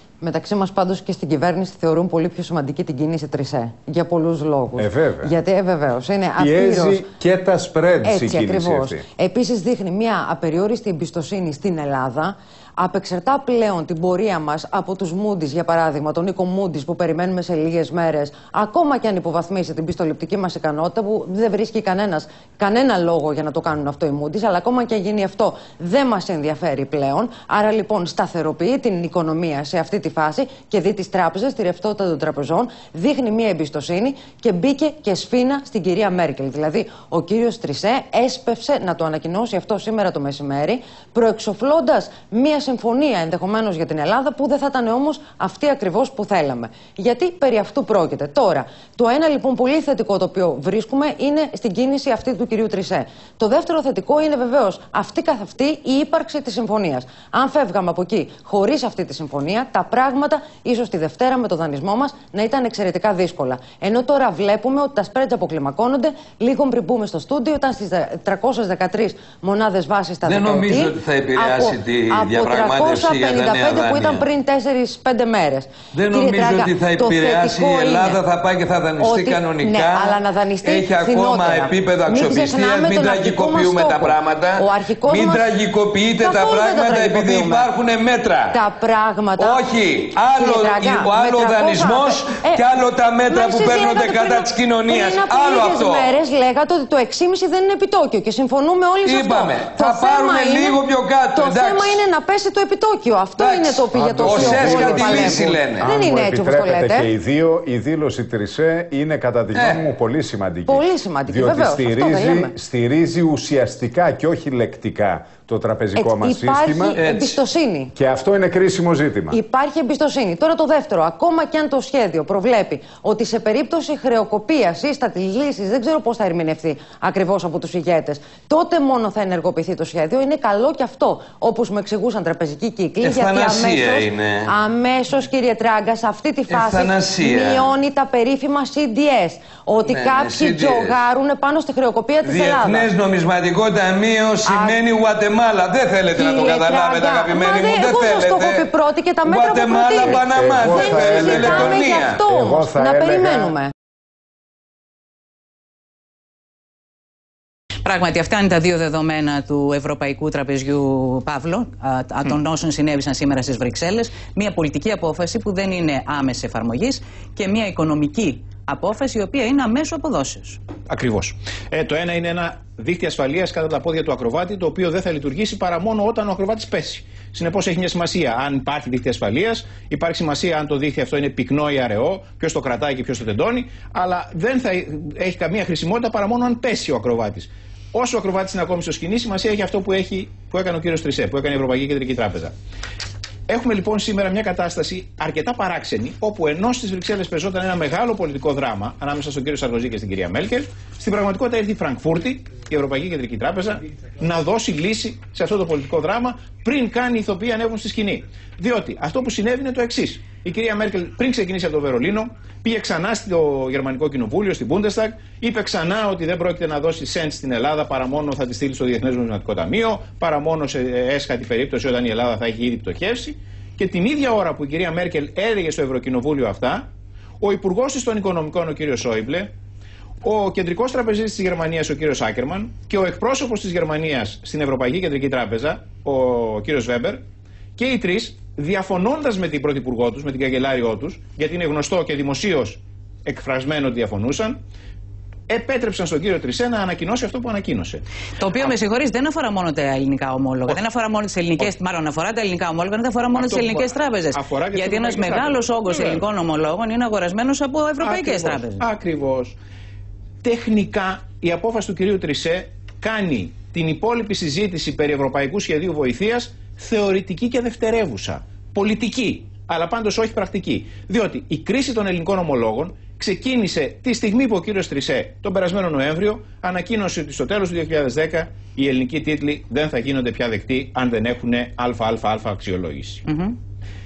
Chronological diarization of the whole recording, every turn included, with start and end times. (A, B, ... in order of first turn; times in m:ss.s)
0:00.2-0:07.0 A
0:04.8-0:05.3 B
0:06.4-0:09.0 B
0:08.0-1:18.2 A
1:10.2-1:14.2 C
1:15.9-1:28.6 C
1:19.0-1:25.6 A
1:26.2-1:27.7 A
1:28.5-1:32.6 A
1:29.4-1:36.2 C
1:33.2-1:40.8 A
1:39.0-1:42.0 C
1:41.3-1:47.1 A
1:43.4-1:45.9 C
1:43.9-1:57.0 B
1:49.5-1:49.9 C
1:50.6-1:52.5 A
1:55.9-1:57.9 A
1:57.0-1:57.4 C
1:57.9-1:59.4 B
1:59.3-2:22.9 A
2:13.0-2:14.5 C
2:16.5-2:17.7 C
2:19.8-2:21.0 C
2:22.2-2:28.7 C
2:24.4-2:24.8 A
2:26.1-2:33.7 A
2:29.2-2:32.3 C
2:30.0-2:31.6 B
2:32.3-2:33.5 B
2:37.8-2:50.6 D
2:50.9-3:12.5 E
3:13.5-3:46.9 E
3:47.4-3:49.5 E
3:50.2-3:57.2 E
3:57.8-4:04.6 E
4:05.5-4:08.0 E
4:08.4-4:18.9 D
4:13.3-4:16.3 E
4:18.0-4:19.5 E
4:20.4-4:43.2 E
4:43.2-4:43.5 D